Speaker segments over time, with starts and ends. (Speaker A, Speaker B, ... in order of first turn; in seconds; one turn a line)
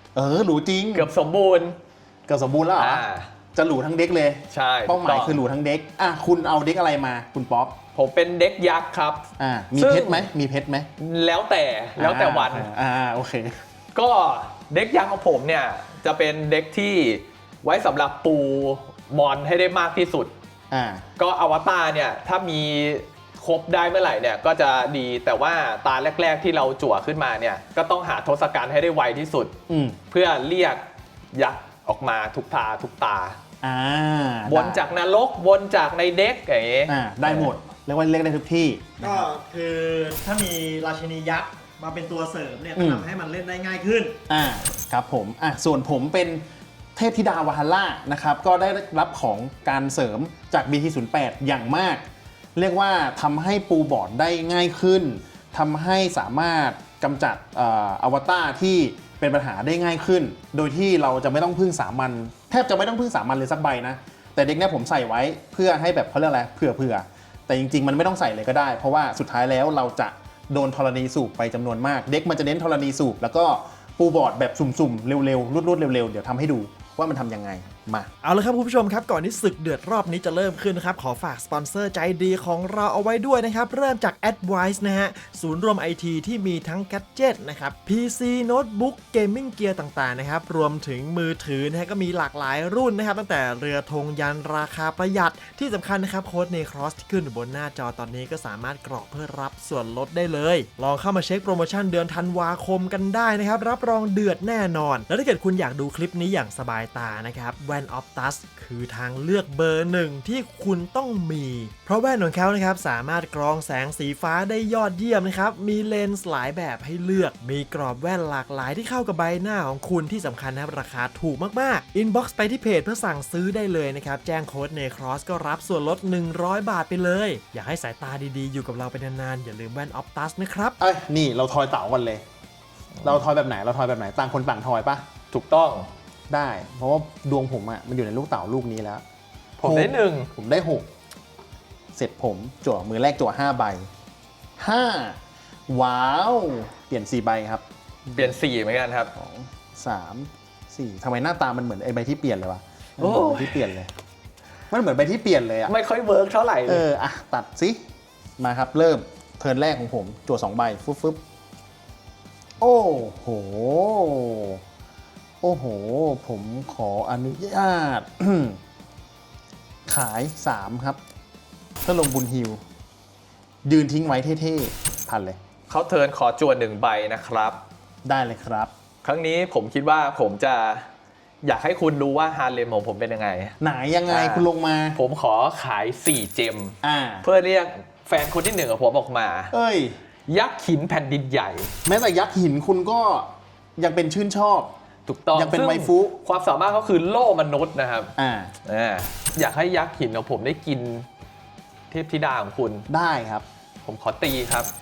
Speaker A: 0.1-1.1
Speaker B: 0.9-1.8
Speaker A: 2.3-7.8
Speaker B: 2.8-3.3
Speaker B: 4.5-5.4
Speaker B: 7.9-10.3
Speaker A: 9.4-10.9
Speaker B: 11.0-12.7
Speaker A: 12.0-13.6
Speaker B: 13.9-20.3
Speaker A: 20.7-21.0
Speaker B: 21.2-29.5
Speaker A: 29.7-30.0
Speaker B: 30.1-30.8
Speaker B: 31.3-33.4
Speaker A: 33.6-34.8
Speaker B: 34.5-37.5
Speaker A: 36.9-39.3
Speaker C: 39.0-44.2
Speaker A: 42.8-43.0
Speaker A: 44.3-46.4
Speaker A: 47.0-52.0
Speaker A: 52.5-78.1
Speaker C: 78.2-130.8
Speaker A: 130.8-132.2
Speaker A: 133.0-135.1
Speaker B: 135.3-135.9
Speaker A: 136.3-139.0
Speaker B: 139.6-140.3
Speaker A: 139.6-140.9
Speaker A: 141.9-143.9
Speaker A: 144.6-145.2
Speaker A: 145.7-148.3
Speaker B: 148.2-149.1
Speaker A: 149.1-153.9
Speaker B: 153.0-153.7
Speaker A: 154.7-155.7
Speaker B: 155.7-156.8
Speaker A: 156.7-157.8
Speaker A: 158.4-161.2
Speaker A: 162.6-164.6
Speaker A: 165.4-168.6
Speaker A: 169.9-171.0
Speaker A: 171.8-172.6
Speaker A: 173.7-175.4
Speaker B: 175.7-177.6
Speaker A: 178.1-178.7
Speaker B: 179.0-180.9
Speaker B: 181.4-183.5
Speaker A: 183.6-185.0
Speaker B: 184.1-189.5
Speaker A: 186.8-187.2
Speaker A: 189.5-190.0
Speaker B: 190.3-191.7
Speaker A: 191.8-194.7
Speaker B: 195.1-198.1
Speaker A: 195.3-196.2
Speaker A: 198.2-198.5
Speaker B: 198.6-201.1
Speaker B: 201.9-202.9
Speaker A: 202.9-203.4
Speaker B: 203.8-204.7